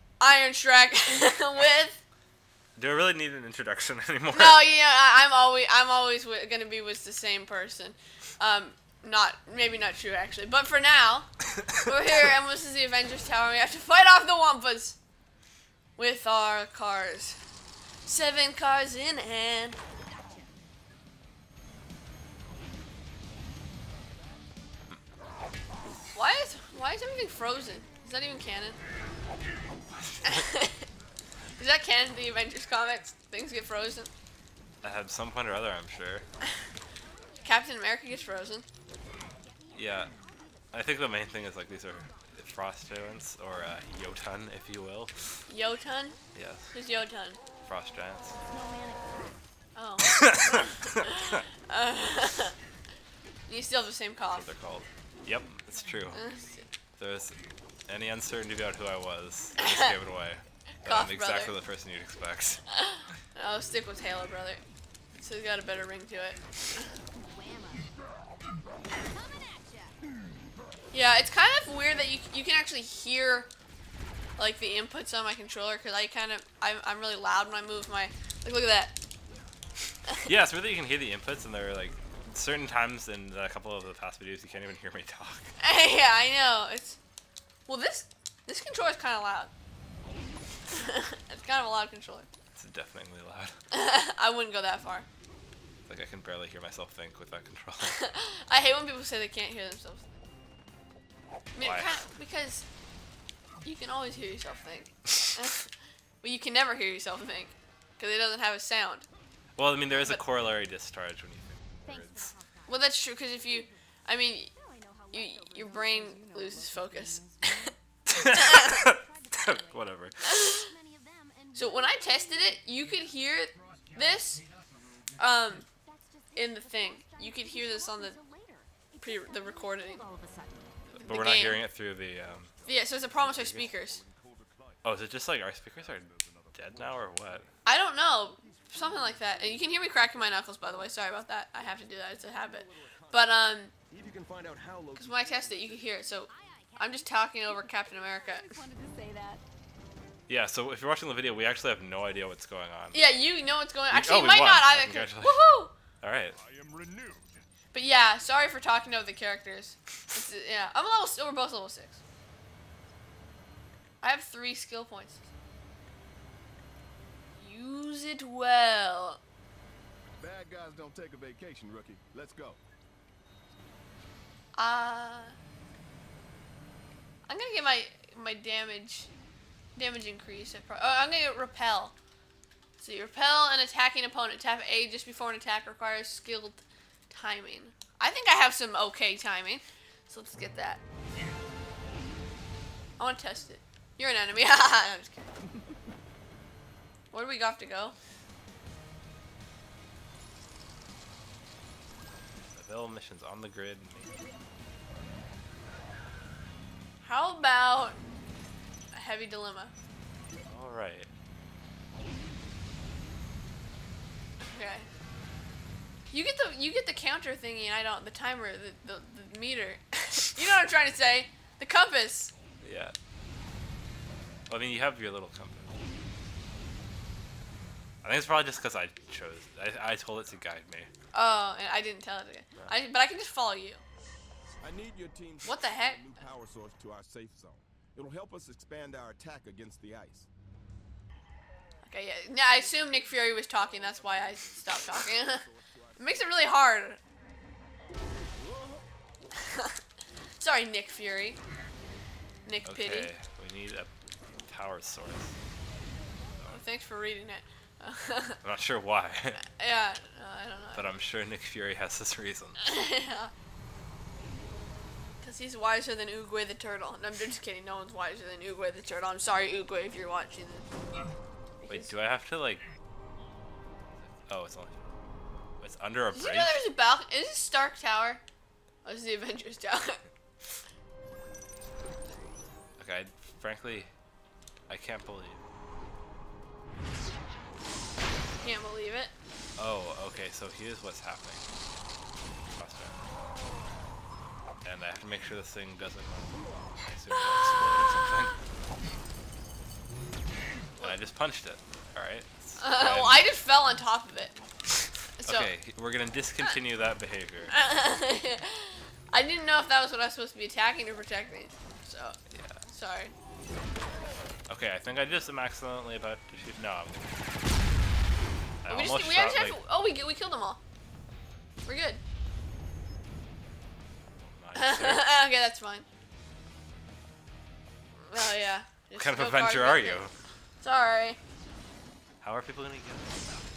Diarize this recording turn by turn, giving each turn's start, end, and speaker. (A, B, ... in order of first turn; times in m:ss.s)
0:00.2-0:02.0 A
0:02.8-0:04.6 B
0:04.3-0:15.0 A
0:16.0-0:17.4 A
0:18.1-0:19.8 A
0:26.1-0:28.8 A
0:30.2-0:30.8 A
0:31.6-0:34.1 A
0:34.8-0:36.2 B
0:37.1-0:37.4 C
0:37.4-0:38.6 A
0:39.4-0:40.7 C
0:39.7-0:40.2 B
0:40.7-0:45.2 B
0:45.5-0:46.2 A
0:46.3-0:46.7 B
0:46.7-0:47.4 A
0:47.6-0:48.4 B
0:48.4-0:49.4 C
0:49.8-0:52.6 A
0:50.1-0:50.4 B
0:53.5-0:54.5 A
0:54.3-0:56.2 B
0:56.1-0:56.7 A
0:57.0-1:02.6 B
0:59.6-1:00.0 A
1:00.8-1:01.5 A
1:02.8-1:04.6 A
1:05.2-1:06.9 A
1:07.1-1:07.9 C
1:08.9-1:10.0 C
1:10.9-1:13.5 A
1:14.4-1:19.0 A
1:20.2-1:25.5 B
1:25.6-1:27.0 A
1:27.7-1:29.5 A
1:30.7-1:32.3 A
1:32.6-1:33.5 B
1:33.7-1:35.1 A
1:35.9-1:38.0 B
1:37.8-1:40.2 A
1:41.6-1:42.6 A
1:41.6-1:41.9 B
1:43.6-1:45.7 A
1:46.2-1:49.1 A
1:49.6-1:52.3 B
1:49.9-1:50.2 A
1:51.8-1:52.8 C
1:52.7-1:54.5 A
1:53.4-1:53.7 C
1:54.5-2:02.6 C
1:55.1-1:57.7 A
1:58.2-2:00.6 B
1:58.3-1:58.7 A
2:00.3-2:00.7 A
2:01.5-2:04.4 A
2:05.2-2:05.7 A
2:05.7-2:11.0 C
2:06.4-2:08.2 A
2:09.0-2:10.0 A
2:10.9-2:11.6 A
2:11.0-2:12.5 B
2:12.4-2:14.8 D
2:12.7-2:14.0 A
2:14.8-2:17.5 B
2:15.8-2:17.5 D
2:17.7-2:23.7 A
2:18.2-2:20.8 D
2:22.1-2:23.4 D
2:23.9-2:25.9 D
2:25.0-2:28.5 A
2:26.3-2:29.4 C
2:30.3-2:33.0 B
2:32.9-2:35.7 A
2:33.9-2:35.4 B
2:36.0-2:36.4 B
2:36.3-2:37.4 D
2:37.7-2:42.0 A
2:44.0-2:45.3 A
2:47.4-2:49.2 A
2:50.2-2:52.6 D
2:54.6-2:55.4 A
2:57.3-2:59.1 A
2:59.8-3:01.9 A
3:02.8-3:10.8 A
3:13.0-3:15.3 A
3:17.1-3:18.0 A
3:22.6-3:24.2 B
3:27.0-3:28.0 A
3:28.9-3:29.7 A
3:30.5-3:31.1 B
3:34.4-3:34.9 A
3:36.1-3:42.3 A
3:42.6-3:43.0 B
3:44.5-3:45.7 B
3:48.0-3:50.9 B
3:51.1-3:53.8 A
3:54.6-4:00.3 D
3:55.4-3:56.0 A
4:01.8-4:05.4 A
4:02.6-4:06.4 D
4:06.0-4:07.0 A
4:08.3-4:08.9 D
4:10.4-4:11.4 A
4:12.4-4:13.1 A
4:12.6-4:15.3 B
4:16.5-4:18.4 A
4:18.4-4:19.4 B
4:19.4-4:20.8 A
4:20.7-4:22.6 B
4:22.6-4:23.3 A
4:25.2-4:30.7 A
4:31.6-4:31.9 A
4:31.7-4:32.6 B
4:34.2-4:34.8 B
4:35.6-4:36.6 B
4:36.1-4:38.2 A
4:38.8-4:40.0 A
4:42.8-4:43.9 B
4:44.7-4:45.4 B
4:48.4-4:49.1 A
4:49.6-4:51.4 B
4:52.6-4:53.0 B
4:54.6-4:58.4 B
5:00.8-5:03.3 B
5:02.6-5:04.4 A
5:05.2-5:05.5 A
5:05.3-5:07.6 B
5:07.5-5:12.2 A
5:12.3-5:12.6 B
5:12.7-5:13.1 A
5:14.5-5:17.2 B
5:18.6-5:19.6 B
5:18.7-5:20.6 A
5:21.6-5:22.0 A
5:24.2-5:25.1 B
5:24.6-5:25.9 A
5:28.1-5:30.1 A
5:29.0-5:30.2 B
5:30.6-5:31.2 A
5:32.2-5:33.4 B